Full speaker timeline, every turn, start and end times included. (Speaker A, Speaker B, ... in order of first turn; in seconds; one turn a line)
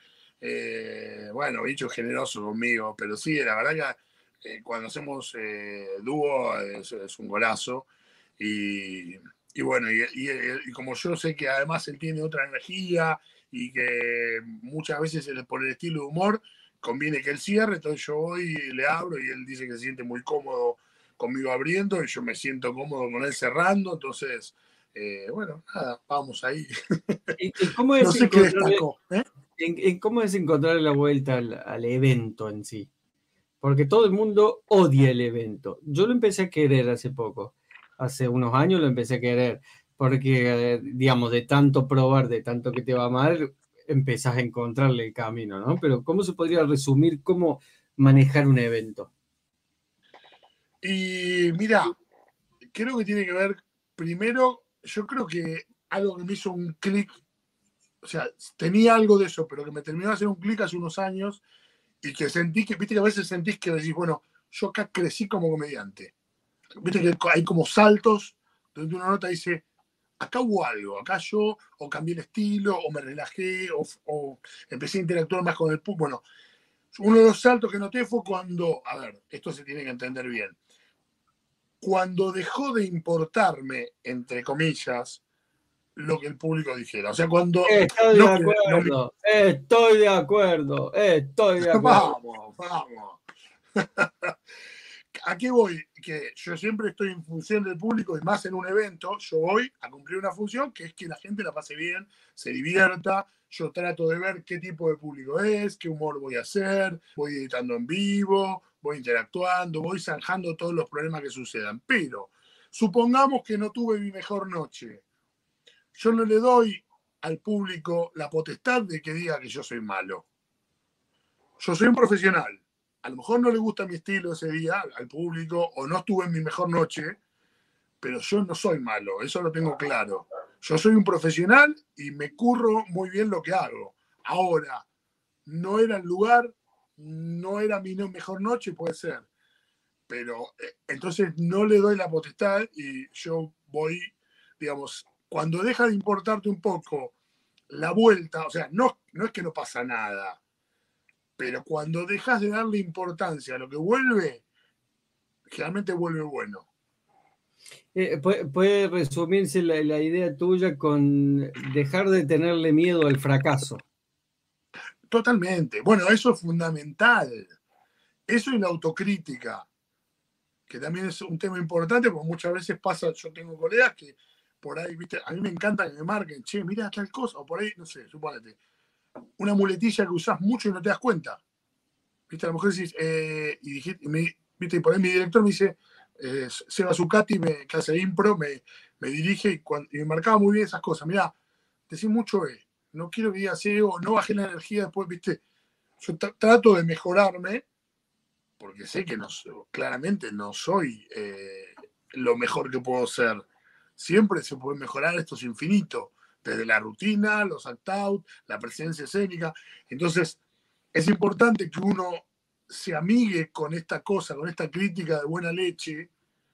Speaker A: 0.4-27.3
Speaker B: 27.4-28.8
Speaker A: 28.0-29.2
Speaker B: 29.6-32.9
Speaker B: 33.6-49.1
Speaker A: 50.8-52.0
Speaker A: 52.7-57.2
Speaker A: 58.0-61.4
Speaker A: 62.0-66.1
Speaker A: 66.8-69.6
Speaker A: 70.2-76.2
Speaker A: 76.9-80.5
Speaker A: 81.8-85.2
Speaker A: 86.0-88.9
Speaker B: 87.7-92.1
Speaker A: 91.6-93.2
Speaker A: 93.8-94.3
Speaker A: 95.1-115.0
Speaker A: 115.9-120.2
Speaker A: 121.6-127.2
Speaker A: 128.0-134.9
Speaker A: 135.5-139.3
Speaker A: 140.1-147.1
Speaker A: 147.7-150.4
Speaker A: 151.4-154.4
Speaker A: 155.5-156.7
Speaker B: 157.9-163.8
Speaker A: 165.1-167.5
Speaker A: 168.3-169.7
Speaker A: 170.7-178.6
Speaker A: 179.4-181.4
Speaker A: 182.3-191.3
Speaker A: 191.9-195.4
Speaker A: 196.0-197.7
Speaker A: 198.6-203.5
Speaker A: 204.0-210.4
Speaker A: 210.9-216.1